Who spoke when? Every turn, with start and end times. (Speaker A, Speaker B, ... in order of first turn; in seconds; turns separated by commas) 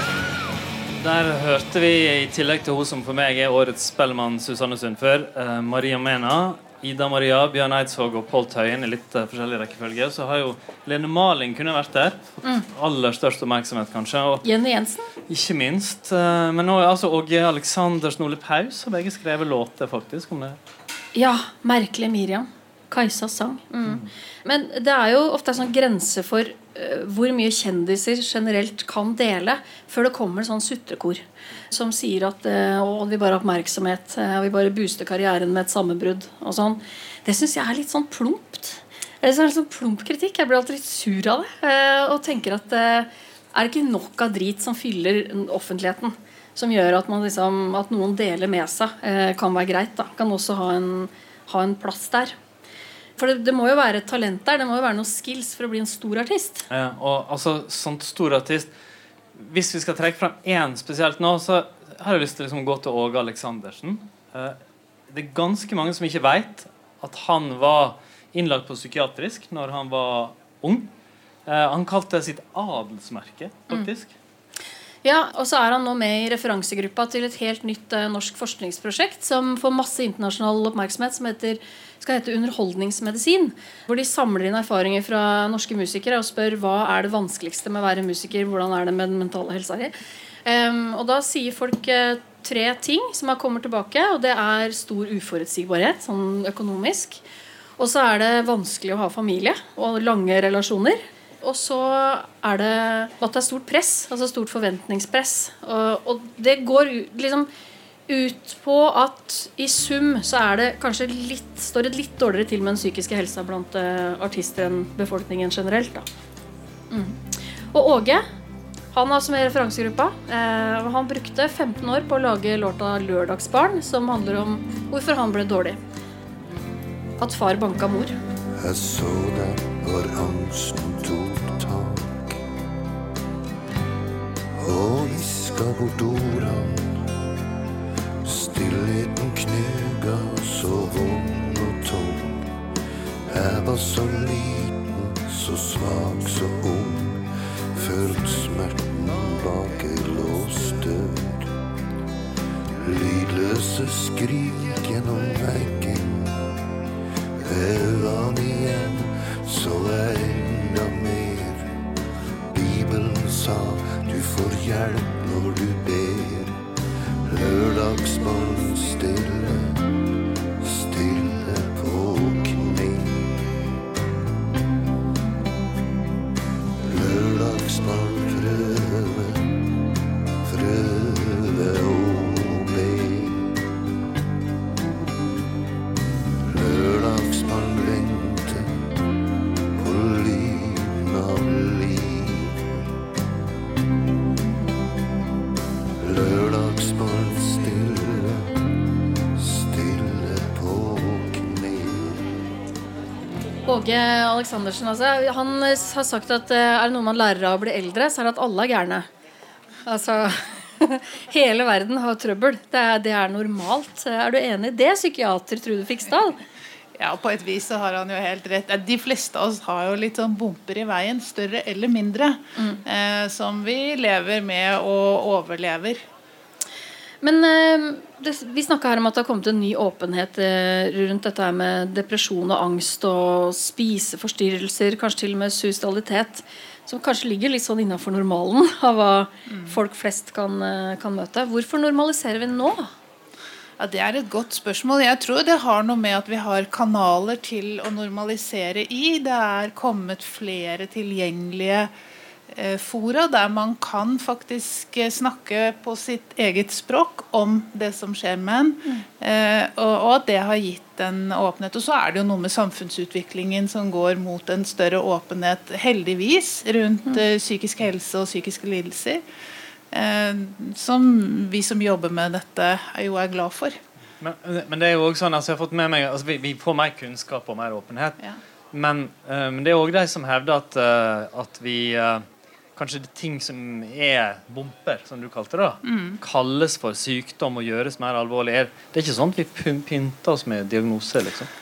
Speaker A: 1.0-14.4, Speaker B: 14.4-15.1, Speaker A: 15.3-20.6, Speaker B: 21.1-52.4, Speaker B: 53.2-56.7, Speaker A: 56.7-58.7, Speaker A: 59.3-64.6, Speaker A: 65.1-70.9, Speaker A: 71.5-74.1, Speaker B: 75.0-89.9, Speaker B: 90.5-97.2, Speaker B: 97.8-107.5, Speaker B: 108.1-116.0, Speaker B: 116.9-117.2, Speaker B: 117.7-118.2, Speaker B: 118.9-125.8, Speaker B: 127.2-128.1, Speaker C: 128.6-132.4, Speaker C: 134.6-137.0, Speaker C: 138.2-142.5, Speaker C: 143.3-151.5, Speaker C: 152.8-156.4, Speaker C: 157.3-161.7, Speaker C: 162.5-166.6, Speaker C: 167.2-169.8, Speaker C: 170.6-173.4, Speaker C: 176.8-179.4, Speaker C: 180.4-183.6, Speaker C: 186.4-188.7, Speaker C: 189.8-192.7, Speaker C: 196.0-198.5, Speaker C: 199.3-202.3, Speaker B: 203.7-209.1, Speaker B: 209.8-216.4, Speaker D: 217.0-226.0, Speaker B: 227.2-242.9, Speaker D: 239.5-239.8, Speaker D: 243.8-251.9, Speaker D: 252.5-269.2, Speaker D: 269.9-273.8, Speaker A: 274.2-278.2, Speaker A: 278.7-282.2, Speaker A: 282.8-291.5, Speaker D: 285.8-286.2